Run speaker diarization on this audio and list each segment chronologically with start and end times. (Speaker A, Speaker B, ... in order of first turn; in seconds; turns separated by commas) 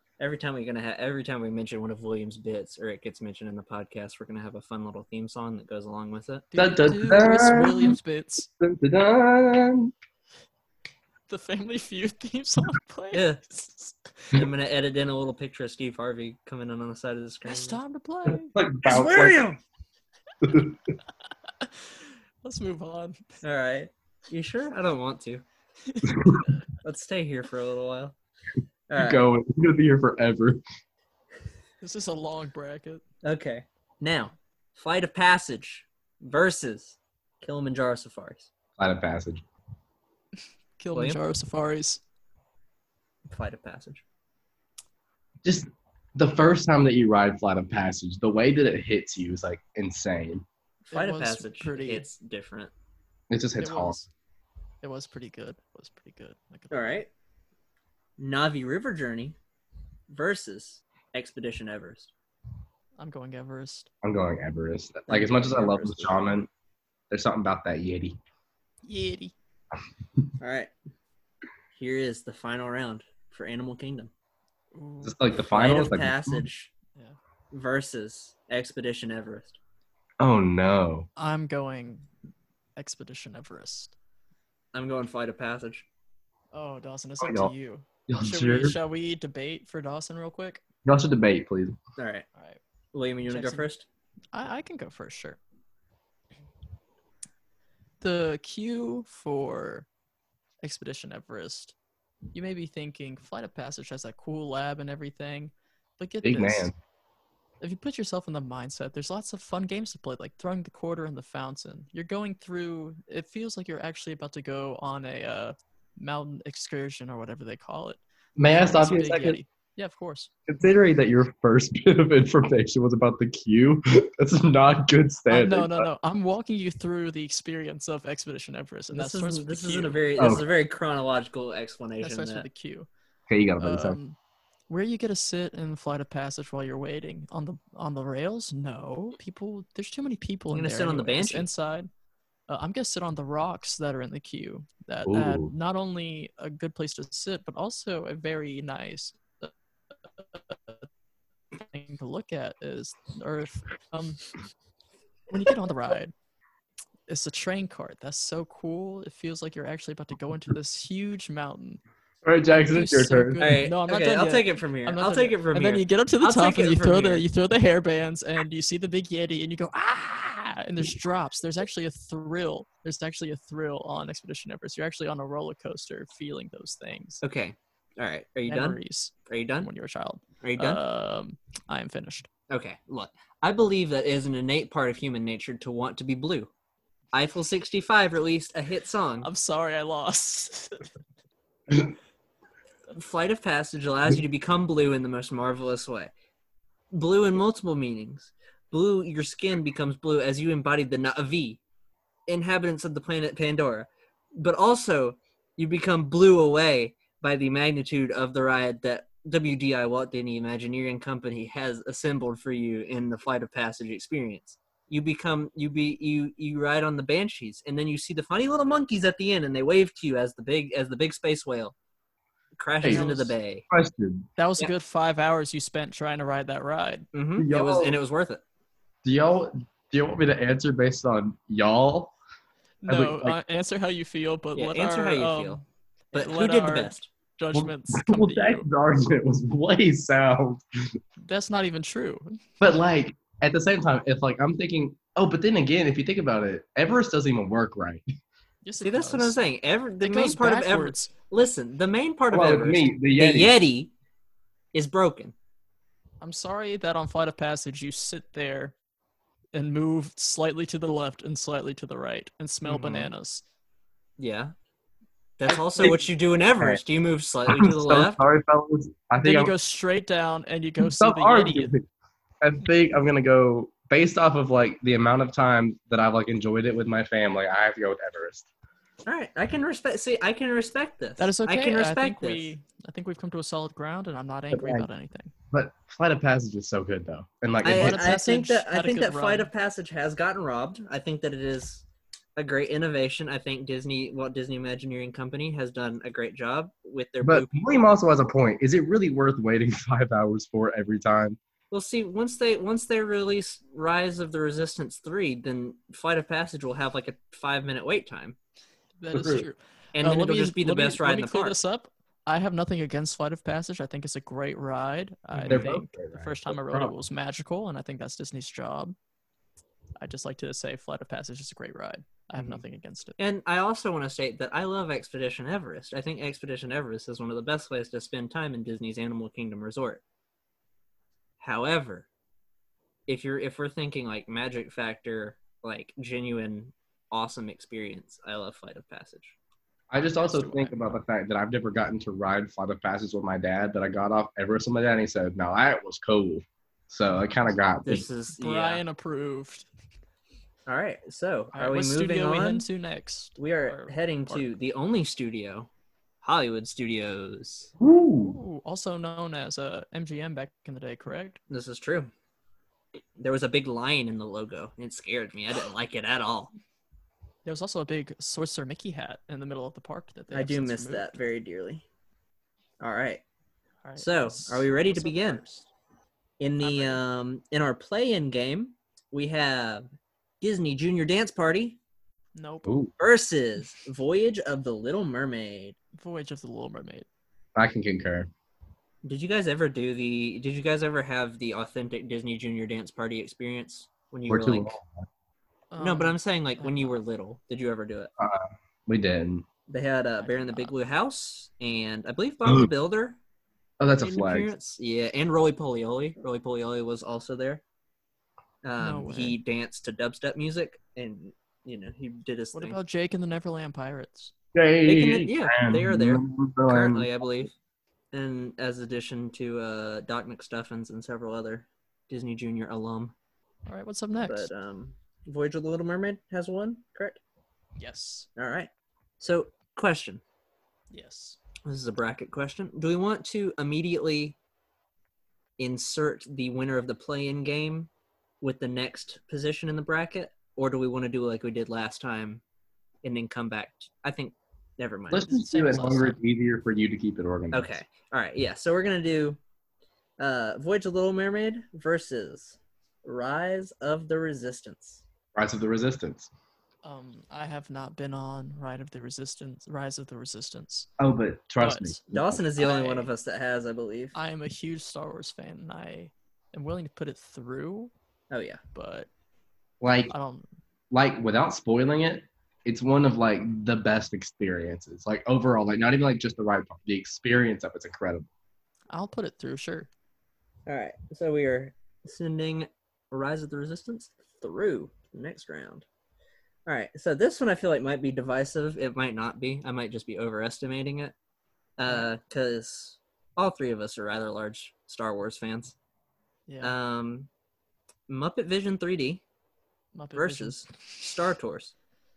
Speaker A: 0.2-6.5, Speaker B: 6.5-8.5, Speaker C: 6.5-8.0, Speaker C: 8.6-9.9, Speaker B: 11.3-14.3, Speaker A: 13.1-13.4, Speaker A: 14.3-17.8, Speaker B: 17.4-18.5, Speaker C: 18.3-19.5, Speaker A: 18.8-19.6, Speaker C: 20.4-20.8, Speaker B: 21.6-21.9, Speaker B: 22.4-23.2, Speaker A: 23.4-25.4, Speaker B: 25.9-26.5, Speaker C: 26.1-26.4, Speaker A: 26.8-28.1, Speaker A: 28.9-29.2, Speaker C: 29.0-30.6, Speaker B: 31.8-33.0, Speaker A: 33.2-38.5, Speaker C: 38.8-39.4, Speaker B: 40.8-42.0, Speaker A: 40.9-41.2, Speaker A: 43.3-44.0, Speaker C: 45.4-50.4, Speaker A: 50.8-52.7, Speaker B: 50.9-52.1, Speaker C: 53.3-54.0, Speaker B: 53.6-54.1, Speaker B: 54.8-57.0, Speaker A: 56.7-57.1, Speaker A: 58.2-59.4, Speaker A: 60.1-62.1, Speaker B: 63.0-63.9, Speaker C: 64.0-66.5, Speaker A: 65.1-66.1, Speaker C: 67.1-68.2, Speaker B: 68.8-69.3, Speaker A: 70.4-70.7, Speaker A: 71.8-74.1, Speaker B: 74.7-75.2, Speaker C: 75.0-76.4, Speaker A: 75.5-76.7, Speaker A: 77.5-79.6, Speaker C: 80.2-81.1, Speaker B: 81.2-82.1, Speaker B: 82.8-83.9, Speaker A: 84.7-85.8, Speaker B: 86.5-90.6, Speaker C: 87.2-87.5, Speaker C: 88.1-88.8, Speaker C: 90.8-91.8, Speaker A: 92.0-92.2, Speaker A: 92.9-93.8, Speaker B: 93.3-93.7, Speaker B: 94.3-95.4, Speaker B: 98.0-99.9, Speaker B: 100.6-101.7, Speaker B: 102.3-106.7, Speaker C: 106.2-106.8, Speaker B: 107.6-118.0, Speaker C: 118.4-119.4, Speaker B: 118.5-120.3, Speaker C: 120.5-125.9, Speaker B: 125.3-130.0, Speaker A: 128.9-132.5, Speaker C: 130.2-130.4, Speaker B: 132.0-132.9, Speaker C: 133.3-134.0, Speaker B: 133.6-134.2, Speaker B: 134.7-141.9, Speaker A: 140.5-141.5, Speaker B: 142.5-149.5, Speaker C: 145.1-145.5, Speaker B: 150.2-150.8, Speaker B: 151.6-154.3, Speaker B: 155.3-156.1, Speaker B: 157.1-161.8, Speaker C: 162.2-163.4, Speaker B: 162.7-177.2, Speaker A: 163.4-167.2, Speaker A: 177.2-179.7, Speaker B: 178.5-182.3, Speaker A: 180.4-180.8, Speaker A: 182.5-186.5, Speaker A: 187.1-189.3, Speaker B: 189.2-190.9, Speaker A: 192.9-196.1, Speaker A: 196.9-201.6, Speaker A: 202.3-221.7, Speaker A: 222.6-223.6, Speaker B: 222.8-223.3, Speaker C: 223.7-224.3, Speaker B: 224.4-227.1, Speaker A: 227.1-228.4, Speaker C: 227.4-228.0, Speaker C: 229.0-232.1, Speaker B: 232.8-238.6, Speaker C: 232.9-233.4, Speaker A: 234.5-235.6, Speaker A: 236.1-237.1, Speaker C: 237.5-240.6, Speaker B: 241.2-242.4, Speaker C: 242.6-248.0, Speaker B: 248.6-249.4, Speaker A: 248.8-253.9, Speaker B: 250.0-251.1, Speaker C: 252.3-253.6, Speaker A: 254.7-255.3, Speaker B: 256.2-258.7, Speaker B: 259.5-263.4, Speaker A: 262.6-263.1, Speaker A: 264.2-264.5, Speaker A: 265.4-268.2, Speaker C: 267.5-269.5, Speaker B: 269.2-271.7, Speaker C: 270.8-271.8, Speaker C: 272.4-278.4, Speaker A: 279.1-282.5, Speaker B: 281.2-285.3, Speaker C: 284.5-284.9, Speaker C: 285.5-288.1, Speaker A: 287.6-291.8, Speaker B: 287.6-289.5, Speaker A: 292.4-297.8, Speaker C: 297.2-301.4, Speaker A: 301.7-308.4, Speaker B: 309.0-318.9, Speaker C: 309.1-309.4, Speaker A: 309.9-311.6, Speaker A: 315.3-315.7, Speaker C: 315.5-316.9, Speaker B: 320.0-323.1, Speaker A: 323.2-330.0, Speaker A: 331.4-332.1, Speaker A: 333.1-339.4, Speaker C: 339.9-348.1, Speaker B: 340.2-340.9, Speaker A: 347.8-348.8, Speaker B: 348.3-349.7, Speaker A: 350.7-352.7, Speaker B: 351.5-354.5, Speaker A: 353.4-355.7, Speaker A: 356.2-357.7, Speaker C: 357.8-358.4, Speaker B: 358.2-361.4, Speaker A: 361.5-362.1, Speaker A: 363.2-366.5, Speaker B: 367.4-371.2, Speaker A: 370.3-371.8, Speaker A: 372.8-373.2, Speaker B: 373.8-375.6, Speaker A: 374.0-375.5, Speaker A: 376.4-379.8, Speaker B: 376.6-377.0, Speaker A: 380.4-381.8, Speaker B: 382.3-382.8, Speaker C: 382.6-382.9, Speaker A: 383.0-385.8, Speaker B: 385.9-387.1, Speaker C: 387.6-388.3, Speaker A: 389.0-394.8, Speaker C: 394.3-395.0, Speaker B: 395.7-397.0, Speaker A: 395.8-398.1, Speaker C: 398.2-399.4, Speaker A: 399.7-403.2, Speaker B: 400.2-400.7, Speaker C: 403.8-404.5, Speaker A: 404.0-407.6, Speaker A: 408.6-412.8, Speaker B: 408.8-409.4, Speaker B: 412.5-414.3, Speaker C: 414.5-417.3, Speaker A: 414.8-417.5, Speaker A: 418.1-423.1, Speaker B: 423.6-424.5, Speaker A: 424.2-427.2, Speaker B: 427.8-428.3, Speaker A: 428.4-428.7, Speaker A: 429.2-430.2, Speaker B: 430.9-431.4, Speaker A: 431.6-434.4, Speaker A: 435.6-437.9, Speaker A: 438.4-442.4, Speaker A: 443.0-445.3, Speaker C: 445.1-447.8, Speaker B: 445.2-446.2, Speaker A: 447.5-449.4, Speaker A: 450.2-455.0, Speaker C: 455.3-456.3, Speaker B: 456.8-460.9, Speaker C: 461.0-462.4, Speaker B: 461.6-462.0, Speaker A: 462.1-464.1, Speaker B: 462.6-463.1, Speaker B: 464.1-467.9, Speaker A: 468.3-468.6, Speaker B: 468.7-469.1, Speaker C: 469.8-470.1, Speaker B: 470.1-470.5, Speaker C: 470.9-478.3, Speaker B: 478.9-479.9, Speaker A: 480.7-485.8, Speaker A: 486.6-491.1, Speaker A: 491.8-495.8, Speaker B: 496.5-496.7, Speaker A: 496.6-497.3, Speaker A: 498.1-499.2, Speaker B: 499.9-500.6, Speaker A: 500.1-501.7